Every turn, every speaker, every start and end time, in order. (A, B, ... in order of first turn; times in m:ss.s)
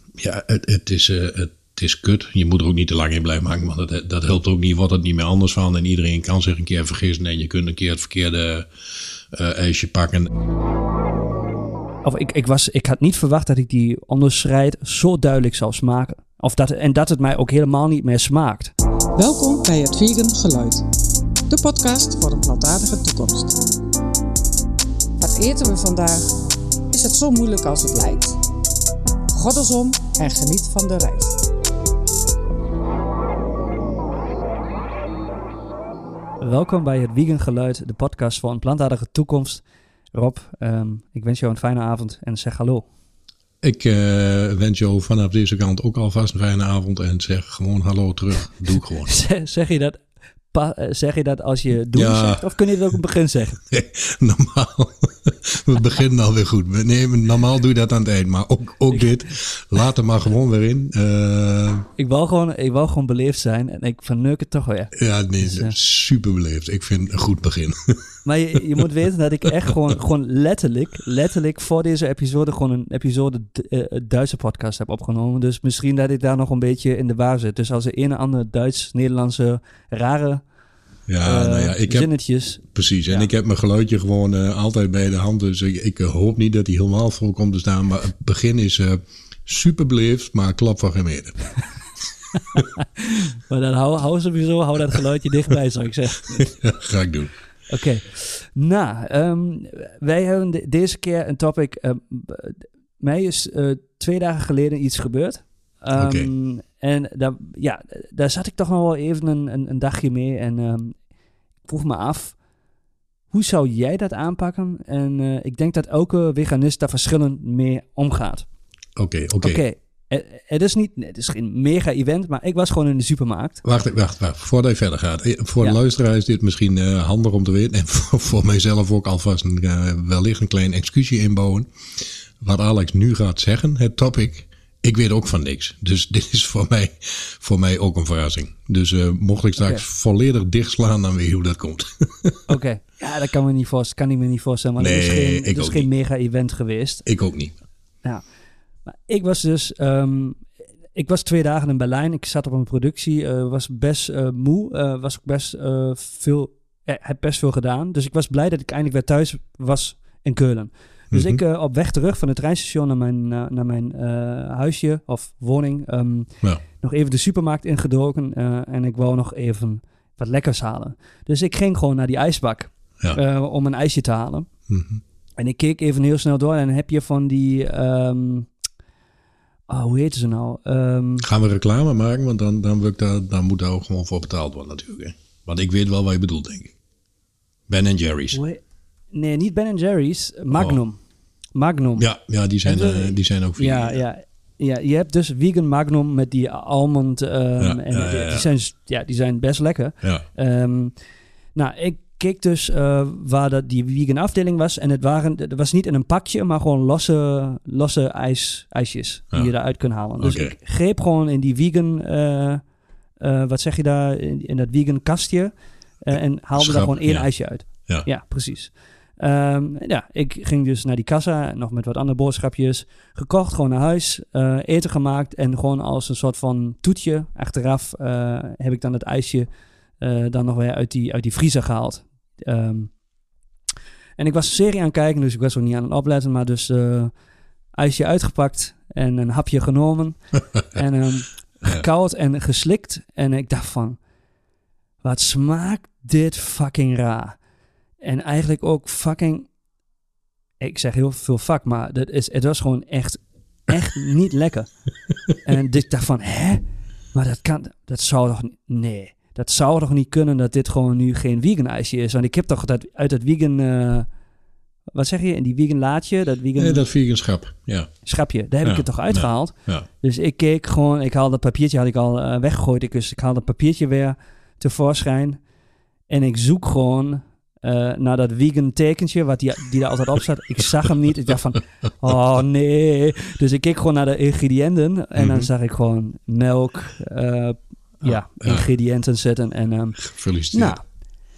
0:00.2-0:08.7 A
0:09.3-0:10.3 A
0:12.0-0:18.7 B
0:19.1-0:20.8 C
0:21.5-0:23.6 C
0:25.2-0:26.3 C
0:26.9-0:28.4 C
0:29.3-0:31.4 C
0:36.4-0:42.8 B
0:43.6-0:49.1 A
0:49.0-0:50.0 B
0:50.5-0:53.6 B
0:51.9-0:52.6 A
0:53.7-1:01.9 A
1:02.0-1:05.8 B
1:04.9-1:08.0 A
1:08.2-1:20.4 B
1:21.1-1:22.1 A
1:21.2-1:23.3 B
1:22.7-1:31.4 A
1:32.6-1:36.5 B
1:36.3-1:37.3 A
1:37.7-1:51.0 B
1:45.9-1:46.3 A
1:51.7-1:52.3 B
1:53.3-1:58.4 B
1:59.0-1:59.6 A
1:59.4-2:03.6 B
2:03.6-2:11.7 A
2:12.4-2:22.4 A
2:19.6-2:19.8 B
2:22.5-2:27.0 B
2:24.8-2:25.9 A
2:27.0-2:27.6 A
2:28.9-2:46.3 B
2:41.1-2:41.4 A
2:46.8-2:54.5 B
2:54.7-2:55.0 A
2:55.4-2:58.5 B
2:59.7-3:01.2 B
3:01.2-3:06.8 A
3:07.7-3:08.4 A
3:08.3-3:08.6 B
3:09.1-3:11.0 B
3:10.5-3:10.8 A
3:11.5-3:12.0 B
3:12.0-3:14.0 A
3:12.6-3:20.9 B
3:17.6-3:18.5 A
3:21.5-3:32.6 B
3:30.2-3:30.5 A
3:33.2-3:49.5 B
3:36.6-3:37.3 A
3:50.0-3:52.9 B
3:54.2-3:57.1 B
3:57.7-4:04.0 B
4:05.0-4:07.4 B
4:08.0-4:09.5 B
4:10.6-4:14.7 B
4:15.4-4:24.1 B
4:24.9-4:26.8 B
4:26.6-4:27.9 A
4:28.0-4:35.4 B
4:28.6-4:29.8 A
4:36.1-4:50.0 B
4:45.2-4:45.5 A
4:48.0-4:48.7 A
4:50.0-4:50.8 A
4:50.5-4:50.8 B